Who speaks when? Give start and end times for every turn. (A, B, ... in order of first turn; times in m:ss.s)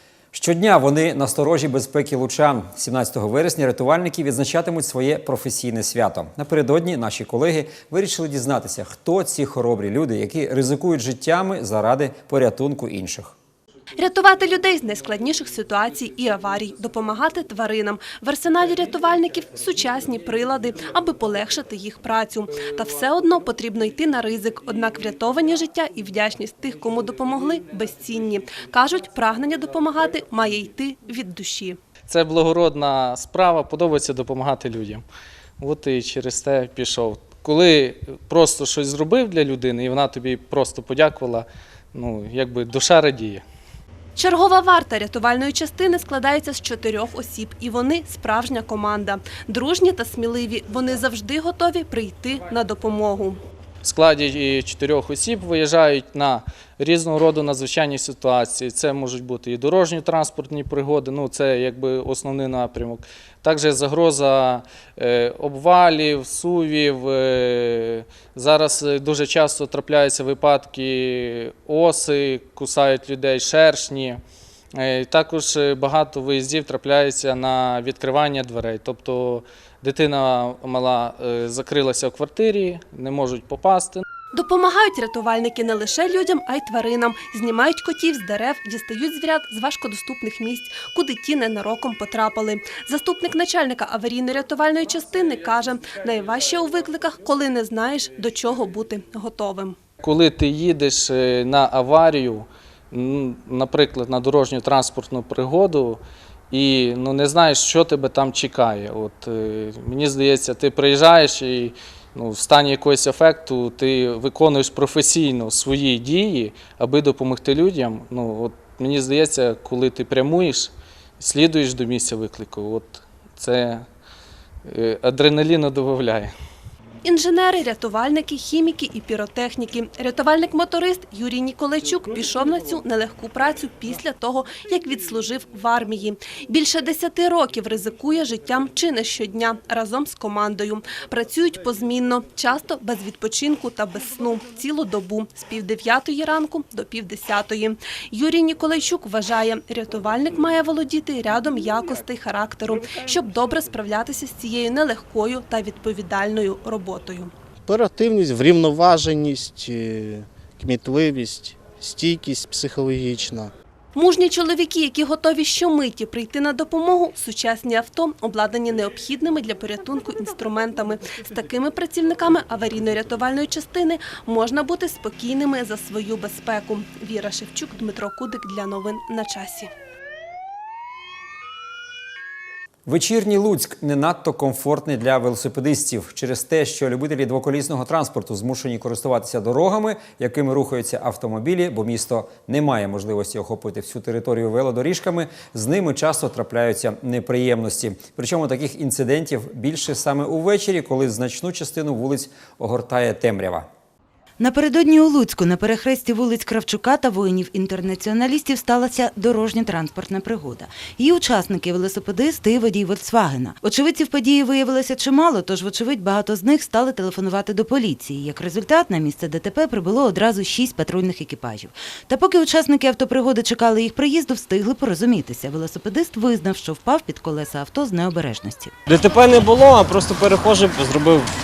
0:00.3-0:13.3 A
0:14.0-0:31.8 B
0:32.1-0:35.0 C
0:35.6-0:43.4 C
0:44.2-0:53.4 B
0:53.8-1:14.2 C
1:14.8-1:24.0 C
1:24.3-1:39.8 B
1:40.0-1:46.0 C
1:46.5-2:03.8 C
2:04.7-2:06.3 C
2:07.0-2:37.3 B
2:37.7-2:43.5 D
2:43.9-2:59.7 B
3:02.8-3:23.7 A
3:24.4-3:48.7 E
3:48.8-3:51.3 F